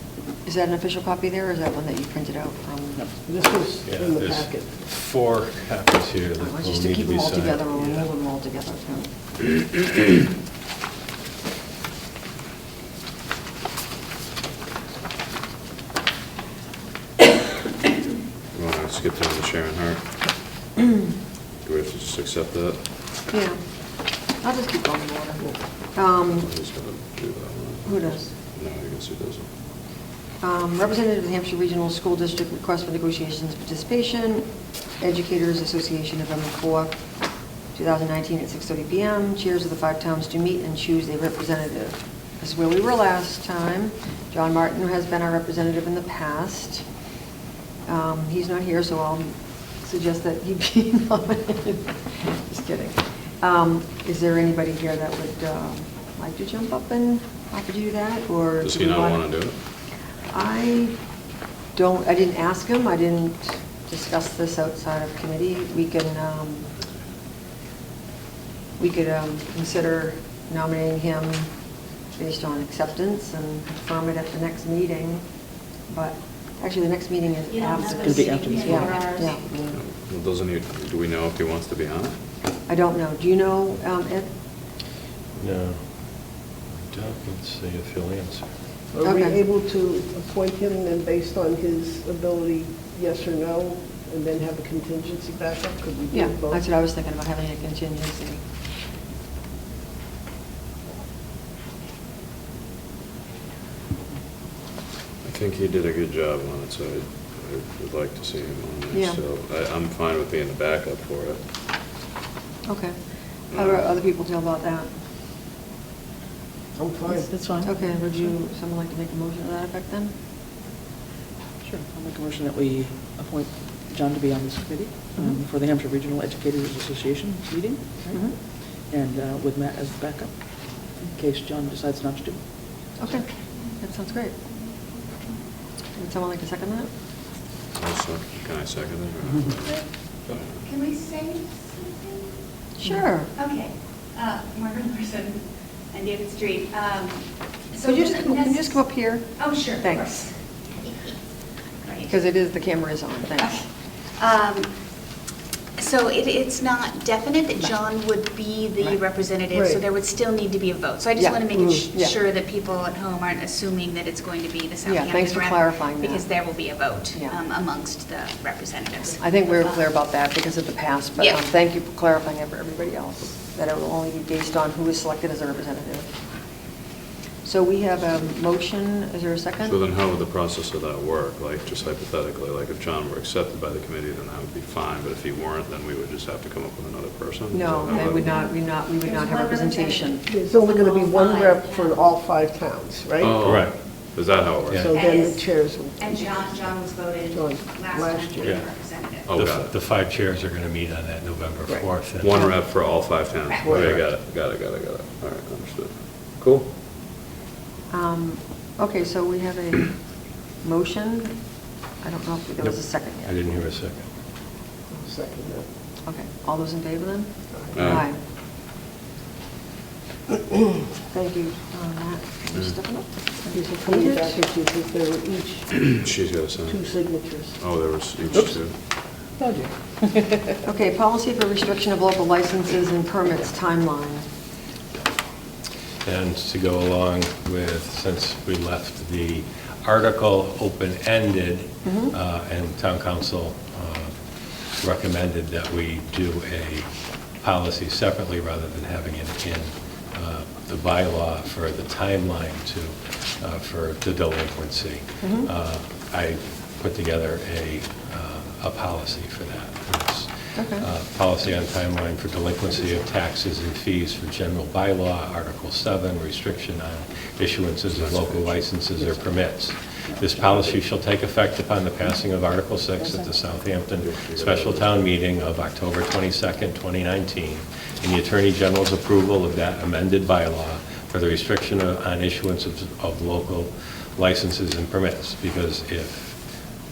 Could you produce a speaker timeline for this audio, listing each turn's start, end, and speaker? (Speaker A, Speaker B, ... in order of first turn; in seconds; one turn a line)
Speaker A: 0.4-3.0
Speaker B: 3.2-4.7
Speaker C: 3.8-7.8
Speaker A: 6.4-9.1
Speaker D: 18.5-20.0
Speaker D: 21.6-22.8
Speaker A: 23.3-23.6
Speaker A: 24.3-26.5
Speaker D: 26.3-29.4
Speaker A: 27.8-28.3
Speaker A: 30.4-34.5
Speaker A: 35.0-37.0
Speaker A: 37.7-46.8
Speaker A: 47.9-59.2
Speaker D: 58.6-59.5
Speaker A: 60.3-60.9
Speaker A: 61.7-66.7
Speaker A: 68.8-71.5
Speaker A: 72.1-75.2
Speaker A: 75.9-79.8
Speaker E: 77.5-79.4
Speaker F: 77.9-79.0
Speaker D: 79.7-82.2
Speaker A: 82.7-84.3
Speaker C: 85.4-85.8
Speaker C: 86.9-88.5
Speaker B: 88.9-96.6
Speaker A: 89.0-89.4
Speaker A: 96.1-98.4
Speaker D: 105.2-111.4
Speaker A: 108.9-109.2
Speaker A: 112.7-113.0
Speaker D: 113.5-113.8
Speaker A: 113.5-114.9
Speaker B: 116.8-117.3
Speaker F: 117.1-117.8
Speaker A: 117.6-120.1
Speaker F: 121.6-132.4
Speaker A: 133.0-133.2
Speaker A: 133.8-134.3
Speaker A: 135.9-136.9
Speaker D: 137.8-139.8
Speaker E: 140.6-142.3
Speaker A: 142.8-143.3
Speaker E: 143.4-145.4
Speaker E: 145.9-148.7
Speaker A: 147.8-150.2
Speaker E: 149.4-150.3
Speaker E: 150.8-151.1
Speaker A: 152.1-153.6
Speaker E: 154.2-154.7
Speaker E: 155.8-169.8
Speaker B: 159.5-159.8
Speaker A: 161.2-162.1
Speaker B: 161.5-161.8
Speaker A: 164.8-166.3
Speaker A: 169.2-176.2
Speaker A: 177.4-179.8
Speaker D: 179.6-188.4
Speaker A: 187.5-190.2
Speaker E: 188.0-192.0
Speaker B: 190.3-193.4
Speaker D: 193.2-194.9
Speaker C: 193.4-193.7
Speaker B: 194.8-196.7
Speaker E: 194.9-199.3
Speaker B: 197.3-198.6
Speaker D: 199.3-199.7
Speaker C: 199.3-202.4
Speaker D: 202.1-206.7
Speaker B: 203.6-204.0
Speaker C: 203.7-204.0
Speaker A: 207.9-209.9
Speaker A: 210.6-211.3
Speaker A: 212.0-213.4
Speaker C: 212.6-214.0
Speaker B: 214.9-215.7
Speaker A: 216.1-218.2
Speaker B: 217.5-217.9
Speaker D: 217.7-218.1
Speaker A: 221.1-224.3
Speaker B: 223.5-225.7
Speaker D: 225.7-226.8
Speaker B: 226.7-227.6
Speaker D: 227.6-228.7
Speaker F: 229.4-230.5
Speaker A: 230.6-234.2
Speaker C: 236.0-244.1
Speaker A: 241.8-242.1
Speaker C: 244.8-246.9
Speaker C: 247.4-286.4
Speaker A: 255.2-255.5
Speaker A: 260.5-260.8
Speaker D: 267.9-268.6
Speaker D: 270.4-270.8
Speaker F: 273.0-273.3
Speaker D: 274.0-274.9